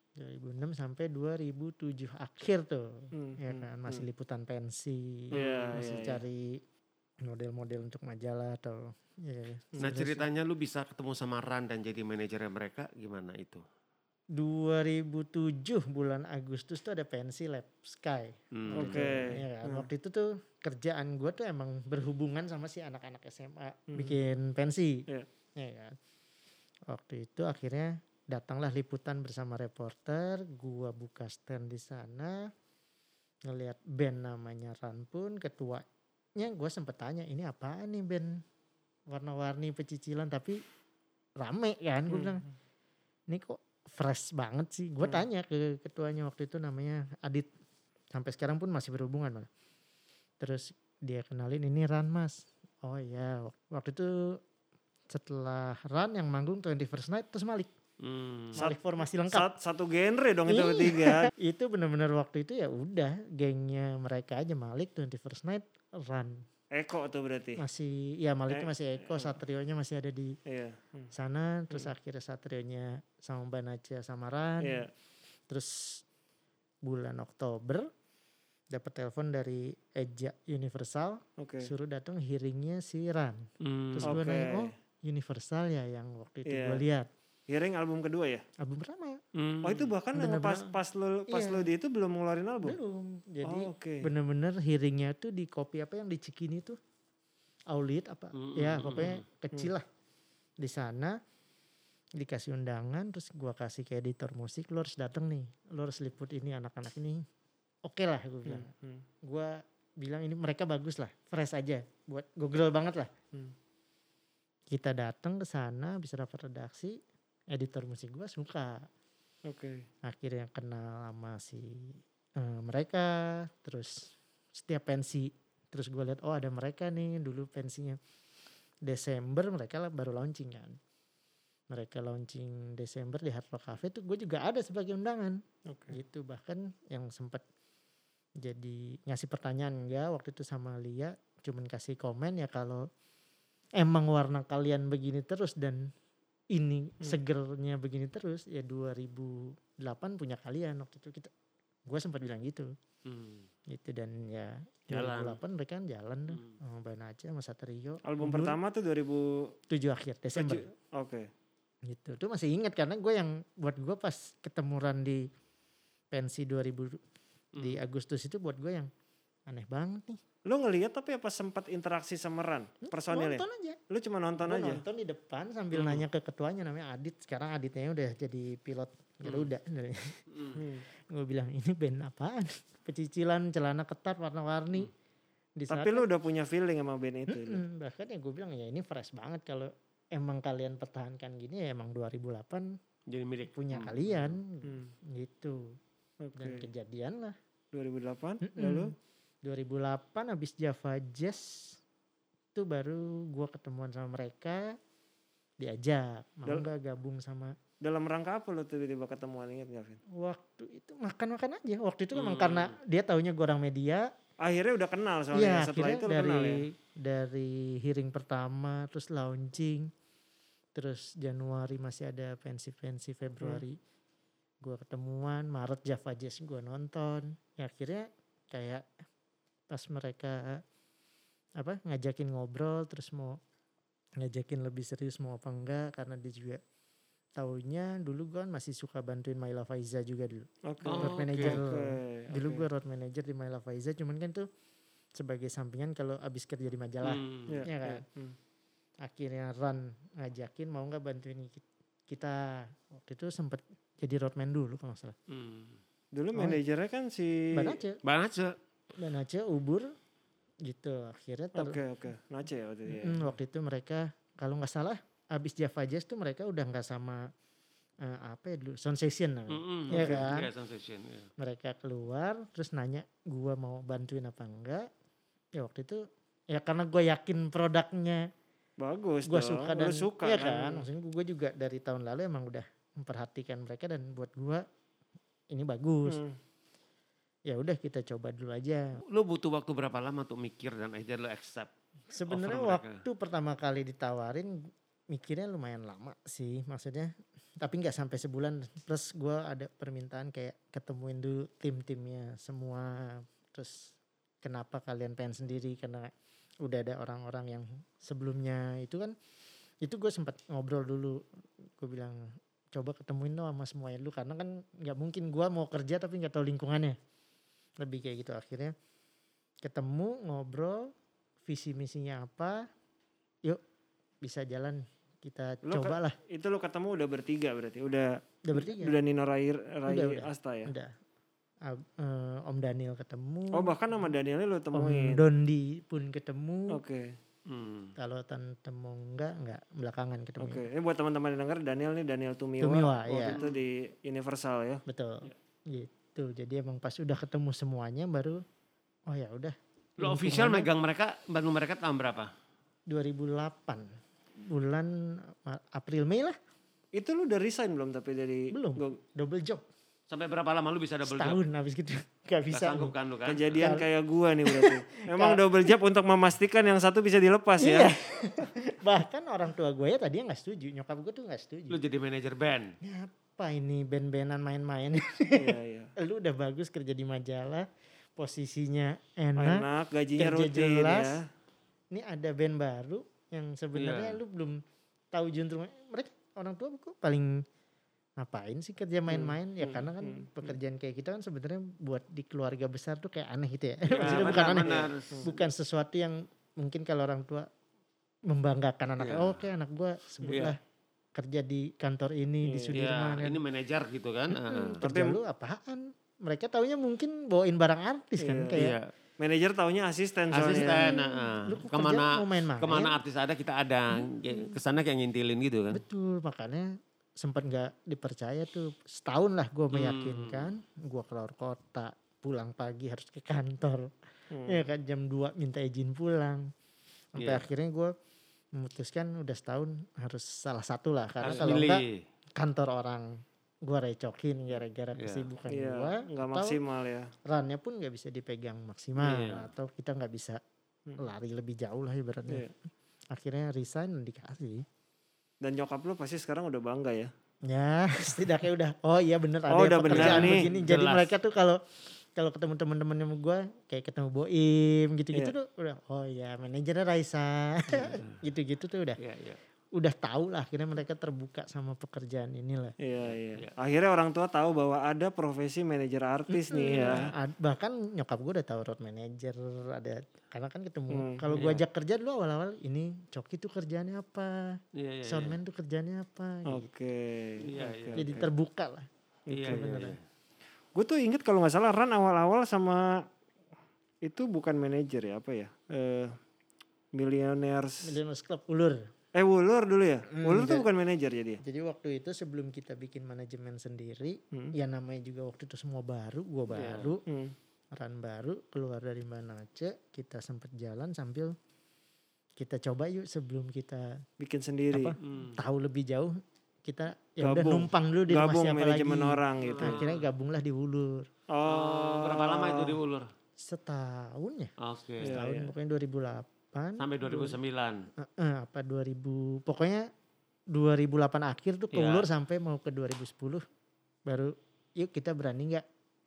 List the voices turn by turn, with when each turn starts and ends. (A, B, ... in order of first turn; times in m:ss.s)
0:00.2-0:06.6 A
0:03.1-0:04.0 B
0:05.3-0:06.2 B
0:07.2-0:10.3 A
0:09.8-0:10.0 B
0:09.8-0:13.6 C
0:14.3-0:25.0 A
0:18.5-0:19.1 C
0:18.7-0:19.9 B
0:23.9-0:24.2 B
0:25.6-0:26.0 A
0:26.9-0:32.5 A
0:33.5-0:35.8 A
0:36.4-0:38.4 A
0:39.1-0:40.6 A
0:41.4-0:42.4 A
0:42.1-0:42.4 B
0:43.3-0:47.5 A
0:48.1-0:49.5 A
0:50.4-0:54.4 A
0:55.1-0:57.7 A
0:58.0-0:58.6 C
0:58.6-0:59.5 A
0:59.3-1:01.3 B
1:00.5-1:06.4 A
1:06.7-1:07.6 B
1:07.6-1:10.4 A
1:08.5-1:09.3 B
1:10.5-1:11.1 B
1:11.1-1:14.9 A
1:14.6-1:14.9 B
1:15.5-1:16.0 A
1:16.8-1:17.9 A
1:18.7-1:27.1 A
1:21.4-1:21.7 B
1:23.6-1:24.2 C
1:24.0-1:24.7 B
1:26.5-1:26.8 B
1:27.5-1:28.4 B
1:28.6-1:29.2 A
1:29.4-1:29.9 C
1:29.6-1:32.8 B
1:30.1-1:30.8 A
1:31.3-1:31.7 A
1:32.6-1:36.8 A
1:33.4-1:34.1 B
1:37.7-1:39.9 A
1:38.4-1:39.2 C
1:40.6-1:41.2 A
1:42.2-1:47.2 A
1:47.8-1:48.7 A
1:48.4-1:49.0 B
1:49.2-1:53.1 A
1:54.7-1:57.0 A
1:57.5-1:58.9 A
1:59.5-1:59.9 B
2:00.0-2:08.0 A
2:08.8-2:10.8 A
2:11.7-2:17.4 A
2:15.7-2:16.0 B
2:18.4-2:22.9 A
2:23.8-2:25.9 A
2:26.5-2:31.3 A
2:31.9-2:32.7 A
2:33.1-2:33.5 C
2:33.7-2:38.6 A
2:34.9-2:35.4 C
2:38.0-2:39.5 B
2:39.7-2:40.7 A
2:40.4-2:41.3 B
2:41.8-2:45.3 A
2:46.1-2:47.0 A
2:47.6-2:47.8 C
2:47.6-2:48.9 A
2:49.5-2:50.2 A
2:50.5-2:54.8 B
2:52.8-2:53.8 A
2:54.4-3:00.2 A
2:55.7-2:56.0 C
3:00.5-3:00.8 B
3:01.0-3:04.9 A
3:05.6-3:06.0 A
3:05.7-3:07.6 B
3:07.3-3:12.8 A
3:13.1-3:14.4 C
3:13.5-3:15.8 A
3:14.6-3:14.9 B
3:16.2-3:16.7 B
3:16.4-3:17.4 A
3:17.7-3:18.9 B
3:18.4-3:18.9 A
3:19.4-3:21.8 A
3:22.6-3:24.8 A
3:25.6-3:27.6 A
3:27.8-3:30.0 B
3:30.1-3:34.1 A
3:32.1-3:32.8 C
3:34.4-3:36.6 B
3:35.3-3:39.9 A
3:40.7-3:43.8 A
3:44.6-3:48.9 A
3:49.7-3:50.6 A
3:51.6-3:53.4 A
3:54.2-3:56.6 A
3:57.4-4:04.5 A
4:00.7-4:02.6 B
4:00.9-4:01.6 C
4:05.2-4:08.0 A
4:07.0-4:07.7 C
4:07.5-4:08.4 B
4:09.0-4:15.2 A
4:15.3-4:15.8 C
4:16.2-4:17.8 B
4:16.4-4:16.6 A
4:17.5-4:18.0 A
4:18.0-4:18.6 C
4:19.0-4:19.9 A
4:20.6-4:21.8 A
4:21.6-4:23.3 B
4:22.9-4:27.3 A
4:28.0-4:30.5 A
4:29.5-4:31.3 C
4:29.9-4:30.2 B
4:31.4-4:34.9 A
4:35.6-4:38.3 A
4:38.8-4:40.9 B
4:39.3-4:44.6 A
4:45.5-4:46.2 A
4:46.1-4:46.4 B
4:47.5-4:49.0 A
4:49.1-4:51.7 C
4:52.1-5:06.1 A
4:52.3-4:53.0 C
5:06.6-5:09.2 A
5:09.8-5:17.0 A
5:17.8-5:18.8 A
5:19.6-5:20.9 A
5:21.4-5:22.7 A
5:24.2-5:26.2 A
5:25.6-5:30.7 B
5:28.4-5:29.0 A
5:29.9-5:31.0 A
5:31.6-5:33.8 A
5:33.5-5:35.2 B
5:34.7-5:36.8 A
5:36.7-5:37.2 B
5:37.5-5:38.0 C
5:38.0-5:40.7 A
5:40.4-5:45.3 B
5:42.6-5:43.4 A
5:43.2-5:43.6 C
5:44.9-5:48.4 A
5:49.1-5:50.7 A
5:50.0-5:52.3 C
5:52.9-5:56.4 A
5:57.0-5:59.0 B
5:58.5-5:59.6 A
6:00.1-6:01.4 C
6:01.0-6:02.9 A
6:02.5-6:03.6 C
6:03.3-6:07.9 B
6:03.6-6:03.9 A
6:04.4-6:05.4 A
6:07.6-6:11.8 A
6:11.7-6:12.8 C
6:12.8-6:19.7 A
6:15.4-6:15.9 B
6:19.4-6:21.2 B
6:20.2-6:21.2 A
6:21.9-6:24.6 A
6:23.8-6:24.2 C
6:25.1-6:27.4 A
6:28.2-6:37.5 A
6:29.1-6:30.5 B
6:33.9-6:35.3 B
6:33.9-6:35.2 C
6:38.3-6:40.6 A
6:39.0-6:39.4 C
6:40.3-6:40.6 C
6:41.2-6:43.4 A
6:42.4-6:42.8 B
6:42.7-6:44.8 C
6:44.3-6:48.8 A
6:44.8-6:45.2 B
6:48.2-6:48.6 B
6:48.6-6:48.9 C
6:49.2-6:51.0 B
6:50.3-6:55.8 C
6:50.5-6:53.0 A
6:54.0-6:54.6 A
6:55.7-7:03.9 A
6:59.7-7:00.5 C
7:04.3-7:04.6 B
7:04.5-7:06.5 A
7:07.2-7:07.9 A
7:07.2-7:07.5 C
7:08.6-7:11.8 A
7:11.2-7:12.0 C
7:12.4-7:16.6 A
7:15.0-7:15.3 C
7:15.5-7:17.1 B
7:17.2-7:20.4 A
7:19.0-7:19.5 C
7:21.0-7:22.5 A
7:23.1-7:24.6 A
7:25.4-7:27.1 B
7:27.4-7:39.0 A
7:29.5-7:30.4 B
7:29.9-7:31.1 C
7:37.7-7:38.2 C
7:39.0-7:39.4 C
7:39.8-7:42.8 A
7:42.8-7:47.1 B
7:43.1-7:43.5 C
7:46.3-7:56.7 A
7:50.9-7:51.3 B
7:51.3-7:51.6 C
7:54.8-7:55.4 C
7:56.5-7:58.3 B
7:57.4-7:58.1 C
7:58.0-7:58.9 A
7:59.3-7:59.7 B
7:59.3-8:00.0 C
7:59.5-8:00.0 A
8:00.8-8:03.0 B
8:04.0-8:06.2 B
8:06.9-8:07.9 B
8:07.8-8:08.9 A
8:09.2-8:11.4 B
8:10.1-8:10.7 A
8:11.4-8:17.0 A
8:16.5-8:17.0 C
8:17.1-8:17.3 B
8:17.7-8:21.4 A
8:22.4-8:24.0 A
8:24.2-8:25.0 B
8:24.7-8:31.1 A
8:25.0-8:25.4 C
8:27.2-8:29.8 B
8:29.5-8:30.0 C
8:31.3-8:32.8 B
8:31.5-8:33.1 C
8:33.4-8:34.5 A
8:34.6-8:35.4 C
8:35.0-8:35.4 B
8:35.1-8:37.4 A
8:36.8-8:37.9 C
8:38.0-8:39.9 A
8:40.5-8:43.4 A
8:41.7-8:42.1 C
8:44.1-8:45.6 A